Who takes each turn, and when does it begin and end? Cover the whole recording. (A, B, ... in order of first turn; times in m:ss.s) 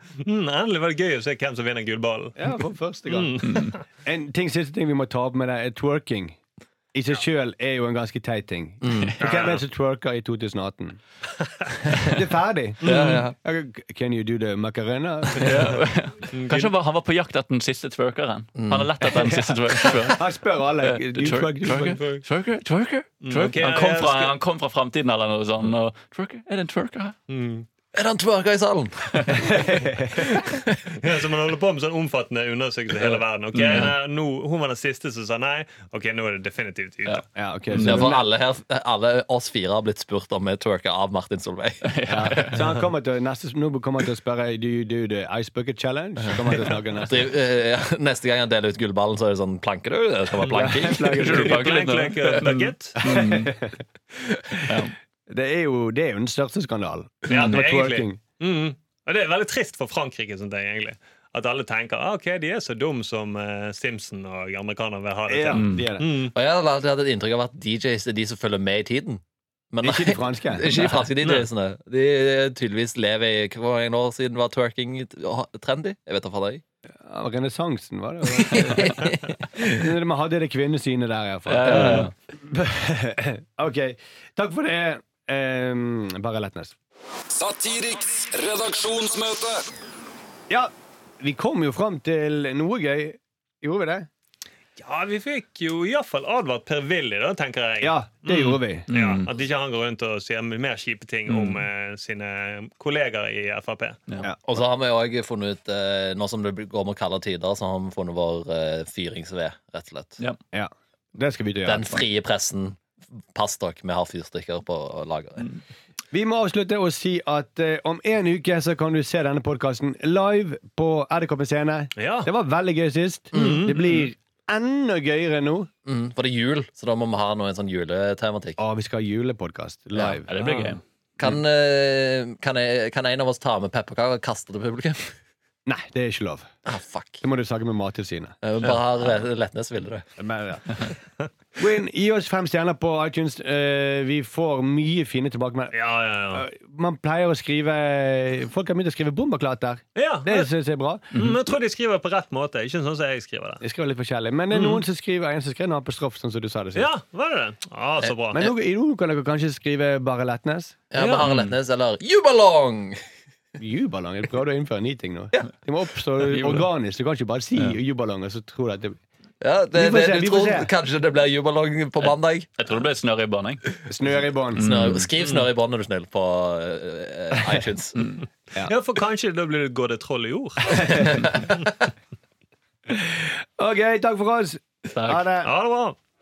0:00.2-0:02.4 A
0:02.4-0:03.4 B
0:03.0-0:03.8 A
0:03.4-0:03.7 C
0:04.0-0:06.4 B
0:06.9-0:11.0 B
0:08.8-0:09.2 D
0:09.2-0:09.6 A
0:12.1-0:15.8 B
0:12.8-0:13.3 D
0:15.4-0:27.1 C
0:16.3-0:16.7 A
0:18.6-0:18.9 D
0:19.0-0:22.0 B
0:21.8-0:22.2 A
0:23.2-0:24.4 A
0:27.3-0:27.6 A
0:27.9-0:29.6 D
0:29.1-0:29.4 C
0:29.4-0:30.2 B
0:30.3-0:30.8 D
0:31.0-0:37.2 A
0:33.5-0:33.9 C
0:37.3-0:38.2 B
0:37.7-0:38.1 C
0:37.8-0:42.5 D
0:41.8-0:42.6 C
0:42.1-0:47.2 B
0:47.1-0:51.1 D
0:50.5-0:51.7 B
0:51.0-0:53.5 C
0:51.2-0:53.0 A
0:53.0-0:53.8 B
0:54.7-0:54.9 C
0:54.7-0:58.2 B
0:57.3-1:06.3 A
0:57.3-0:57.6 C
1:05.3-1:06.2 B
1:05.5-1:05.9 C
1:06.3-1:09.2 D
1:09.7-1:16.6 D
1:09.8-1:10.8 B
1:11.2-1:11.5 A
1:17.0-1:19.1 B
1:18.5-1:19.1 D
1:19.6-1:26.7 B
1:21.5-1:22.1 C
1:21.6-1:22.1 D
1:27.3-1:29.6 E
1:30.5-1:34.1 B
1:34.8-1:44.0 A
1:37.8-1:38.9 B
1:38.9-1:39.3 C
1:41.3-1:41.6 C
1:44.4-1:50.2 D
1:50.5-1:52.0 B
1:51.6-1:52.8 D
1:53.3-1:55.4 D
1:56.1-2:05.7 B
2:02.0-2:02.3 A
2:03.3-2:04.0 A
2:05.8-2:08.6 D
2:08.6-2:10.8 B
2:10.3-2:10.8 C
2:11.2-2:15.1 D
2:15.6-2:16.5 B
2:16.6-2:17.2 D
2:17.2-2:18.4 B
2:18.4-2:20.0 D
2:20.2-2:20.7 B
2:21.6-2:25.7 B
2:25.7-2:26.4 A
2:26.3-2:31.2 B
2:30.0-2:30.5 A
2:31.1-2:33.6 A
2:33.6-2:36.9 B
2:34.5-2:34.8 A
2:36.7-2:38.5 A
2:38.3-2:40.8 B
2:40.9-2:43.0 D
2:41.0-2:41.3 A
2:41.2-2:41.5 C
2:43.6-2:49.0 B
2:46.2-2:46.7 C
2:49.4-2:52.5 D
2:49.7-2:50.7 B
2:52.6-2:53.8 C
2:53.9-2:54.7 B
2:54.6-2:55.1 C
2:54.6-2:58.0 D
2:58.0-2:58.2 C
2:58.6-3:01.6 A
3:00.7-3:01.2 B
3:02.9-3:05.5 B
3:05.4-3:06.0 A